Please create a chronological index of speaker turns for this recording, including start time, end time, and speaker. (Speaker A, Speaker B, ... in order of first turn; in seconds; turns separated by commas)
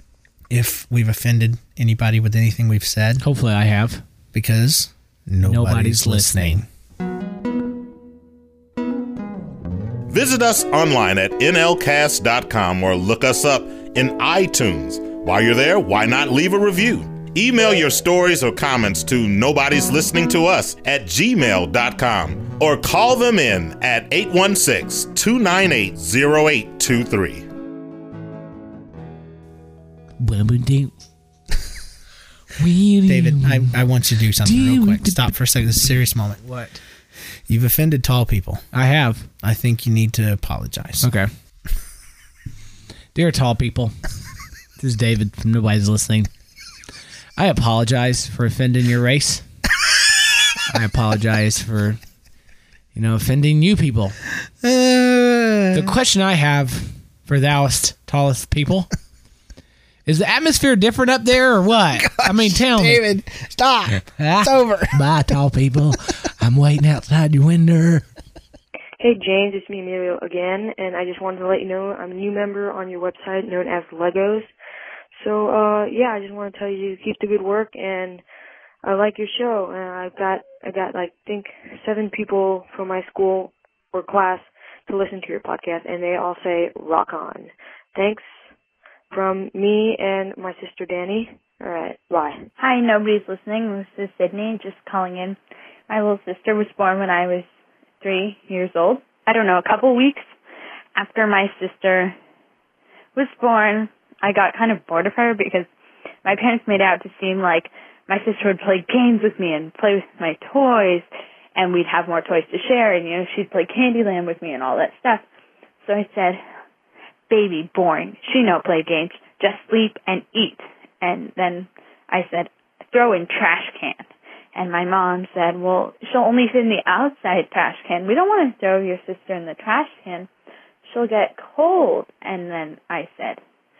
Speaker A: 0.5-3.2, Speaker B: 3.2-4.0, Speaker A: 4.3-6.7, Speaker B: 5.4-6.6, Speaker C: 10.1-27.4, Speaker B: 30.2-30.9, Speaker B: 32.5-33.8, Speaker A: 33.1-36.4, Speaker B: 34.4-35.2, Speaker B: 36.4-36.8, Speaker A: 37.5-38.6, Speaker B: 38.7-39.3, Speaker A: 39.4-41.1, Speaker B: 41.0-41.3, Speaker B: 43.1-43.9, Speaker B: 44.8-46.3, Speaker B: 47.4-49.4, Speaker B: 50.7-52.0, Speaker B: 53.0-54.2, Speaker A: 54.6-55.9, Speaker B: 55.7-58.9, Speaker B: 60.1-63.0, Speaker A: 62.0-65.0, Speaker B: 64.2-68.0, Speaker D: 69.0-74.5, Speaker D: 75.1-78.2, Speaker D: 78.8-88.5, Speaker D: 89.1-92.5, Speaker E: 92.6-95.4, Speaker E: 95.9-97.5, Speaker E: 98.0-100.3, Speaker E: 101.0-102.1, Speaker E: 103.1-105.7, Speaker E: 106.2-115.2, Speaker E: 115.8-116.4, Speaker E: 117.3-124.0, Speaker E: 124.5-130.3, Speaker E: 130.9-133.4